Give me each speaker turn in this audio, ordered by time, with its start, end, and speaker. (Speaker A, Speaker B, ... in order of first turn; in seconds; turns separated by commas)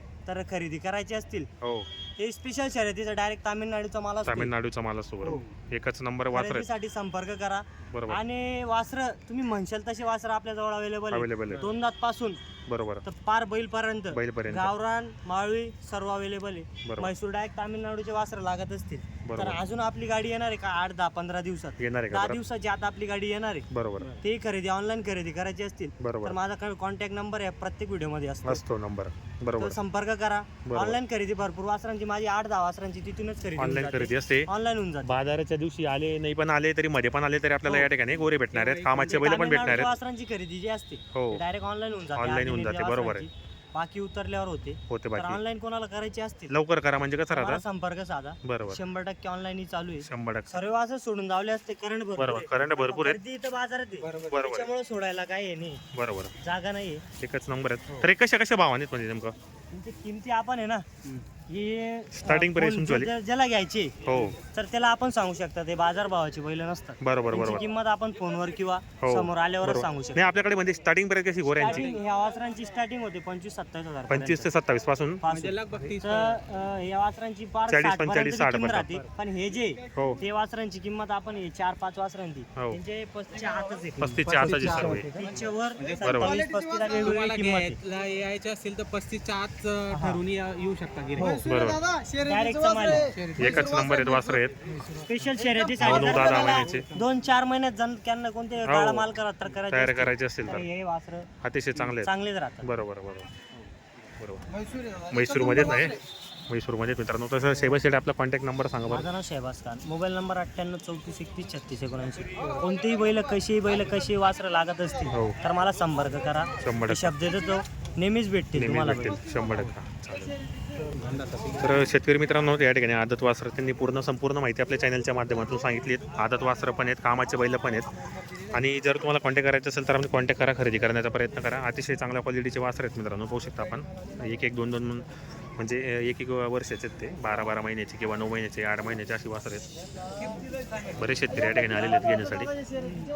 Speaker A: 0.3-1.5, Speaker B: 1.6-1.9, Speaker A: 2.2-4.5, Speaker B: 4.2-6.7, Speaker A: 6.3-12.4, Speaker B: 7.9-8.2, Speaker B: 11.1-11.7, Speaker B: 12.7-13.0, Speaker A: 13.1-28.6, Speaker B: 14.1-14.7, Speaker B: 16.8-17.1, Speaker B: 19.2-19.6, Speaker B: 21.8-22.4, Speaker B: 23.7-24.1, Speaker B: 26.0-26.4, Speaker B: 28.4-29.8, Speaker A: 29.6-35.2, Speaker B: 30.6-31.0, Speaker B: 33.6-34.5, Speaker B: 35.0-39.9, Speaker C: 38.5-39.6, Speaker A: 39.2-46.5, Speaker B: 41.1-41.4, Speaker B: 42.1-43.3, Speaker B: 44.9-45.4, Speaker B: 46.5-47.6, Speaker A: 47.3-55.8, Speaker B: 48.4-48.8, Speaker B: 50.0-50.6, Speaker B: 52.2-53.2, Speaker C: 54.0-54.3, Speaker B: 54.3-54.7, Speaker B: 55.9-56.3, Speaker A: 56.4-57.0, Speaker B: 57.2-59.4, Speaker A: 59.7-60.9, Speaker A: 61.5-70.2, Speaker B: 62.1-63.1, Speaker B: 64.0-64.4, Speaker B: 67.0-67.7, Speaker B: 69.0-71.9, Speaker A: 71.5-74.5, Speaker B: 74.1-75.2, Speaker A: 75.2-84.2, Speaker C: 75.3-76.4, Speaker B: 77.7-78.9, Speaker B: 79.9-80.2, Speaker B: 84.0-85.1, Speaker C: 84.2-86.3, Speaker A: 84.9-87.8, Speaker B: 86.0-86.4, Speaker C: 86.9-91.5, Speaker A: 89.9-90.2, Speaker A: 91.2-91.5, Speaker B: 91.4-91.9, Speaker A: 92.2-93.1, Speaker C: 93.0-93.9, Speaker B: 93.4-94.5, Speaker C: 94.7-95.3, Speaker A: 95.0-101.3, Speaker C: 95.8-97.0, Speaker B: 95.8-96.9, Speaker B: 98.7-99.1, Speaker B: 99.7-100.7, Speaker B: 101.4-102.1, Speaker A: 102.0-102.7, Speaker B: 102.6-103.3, Speaker B: 104.2-104.5, Speaker B: 105.1-109.1, Speaker A: 108.9-119.2, Speaker B: 115.1-115.4, Speaker B: 116.6-117.1, Speaker B: 118.5-120.4, Speaker C: 120.9-121.9, Speaker B: 121.6-127.9, Speaker B: 128.5-139.7, Speaker B: 141.0-142.5